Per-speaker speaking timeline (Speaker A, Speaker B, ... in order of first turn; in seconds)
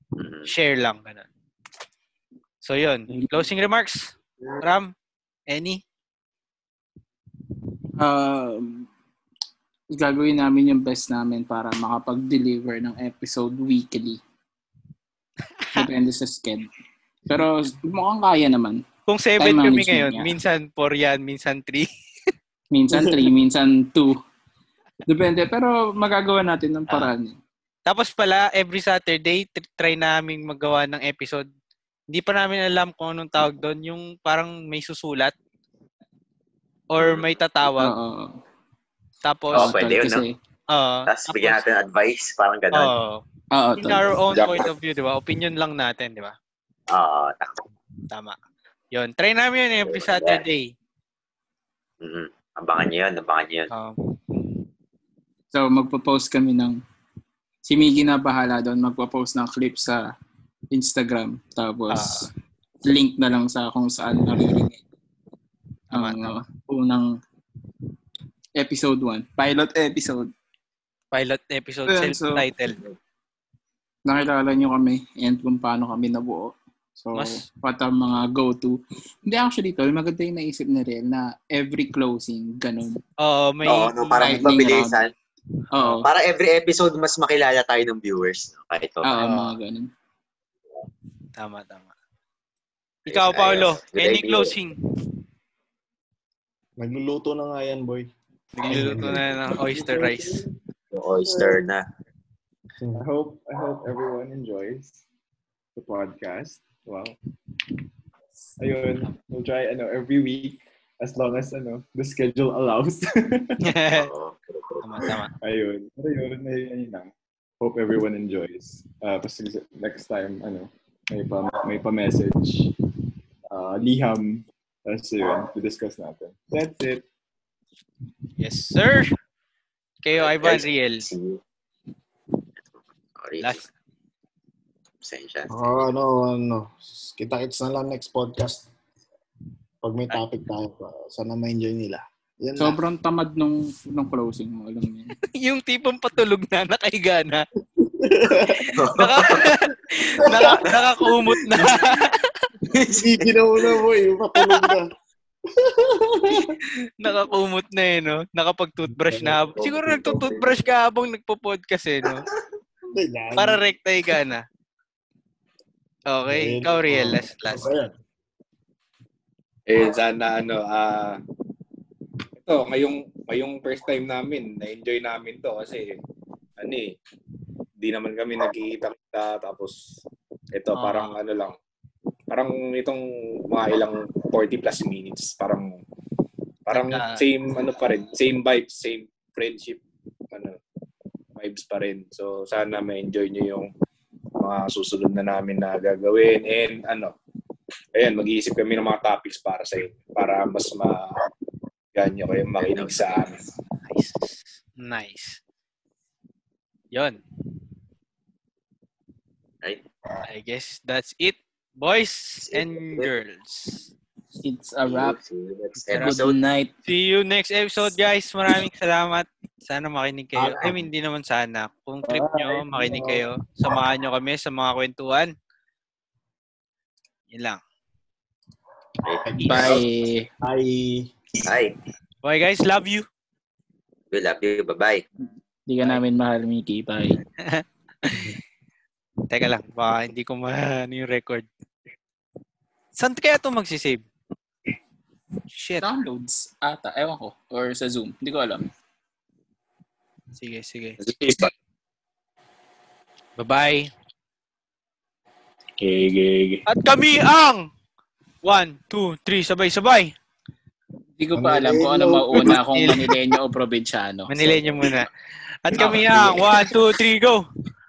Speaker A: 0.2-0.5, 37.0-37.5, 39.5-40.2, 41.0-43.0, 44.3-44.7, 46.9-47.7, 49.8-50.5, 52.0-53.7, 83.6-85.1, 86.0-89.2, 93.0-94.5, 100.9-101.8, 113.9-115.1, 130.1-131.4, 132.6-133.7, 135.0-135.8, 148.8-149.6, 150.6-151.8, 152.7-153.8, 159.6-160.6, 202.6-203.3, 212.4-213.1, 214.8-216.4, 220.4-220.8, 229.0-229.8, 231.4-231.8, 234.1-235.0, 251.0-251.5
Speaker B: 0.5-1.3, 2.6-4.9, 5.5-5.8, 15.6-15.9, 19.1-21.9, 26.9-27.1, 27.9-31.4, 32.1-35.3, 36.9-38.0, 39.2-39.8, 40.7-41.6, 42.7-43.2, 43.8-46.3, 48.1-48.4, 48.9-50.7, 53.7-54.0, 61.9-62.3, 65.9-66.3, 71.1-72.8, 77.1-77.5, 83.2-84.4, 89.2-89.6, 91.4-91.9, 93.1-94.8, 98.6-100.4, 113.6-114.1, 114.8-115.3, 128.4-129.2, 130.0-131.1, 145.3-147.4, 148.9-152.5, 154.4-154.7, 157.0-162.2, 163.4-164.4, 166.1-167.7, 180.7-181.1, 186.7-187.2, 203.9-205.4, 206.9-207.2, 210.3-213.9, 216.9-225.3, 227.3-227.6, 232.2-233.1, 237.4-238.3, 239.3-241.5, 243.0-244.1, 245.5-245.9, 250.4-251.0, 253.4-253.9, 256.7-257.7, 258.4-260.1, 262.3-263.2, 264.3-265.1, 265.6-267.4
Speaker C: 3.1-3.4, 8.0-8.9, 9.9-14.2, 15.7-16.7, 17.3-18.8, 19.4-20.3, 22.7-24.2, 25.1-27.4, 37.8-38.4, 39.5-40.3, 43.5-44.2, 55.5-56.8, 57.6-60.0, 60.7-62.3, 62.8-64.8, 65.9-67.2, 68.6-70.3, 71.9-72.5, 74.1-83.0, 84.2-85.0, 85.7-86.0, 89.0-89.9, 142.6-145.2, 214.4-215.2, 215.9-216.7, 229.4-230.3, 235.7-237.2, 245.8-248.7, 261.2-264.6
Speaker D: 96.8-98.1, 98.6-100.4, 101.2-101.5, 135.5-138.7, 139.8-142.8, 147.8-148.7, 150.2-150.6, 152.9-154.9, 155.6-156.5, 158.9-159.4, 162.9-163.6, 166.3-167.9, 222.1-223.2, 229.3-229.8, 230.4-231.1, 261.3-262.6
Speaker E: 103.0-105.0, 105.7-107.2, 108.6-113.6, 115.4-122.7, 123.5-127.0
Speaker F: 169.7-171.2, 172.4-176.0, 176.6-176.9, 177.8-179.8, 180.5-181.6, 182.3-185.8, 186.7-189.8, 190.3-190.6, 191.4-193.7, 194.4-197.1, 197.9-201.2, 201.9-203.4, 255.8-256.6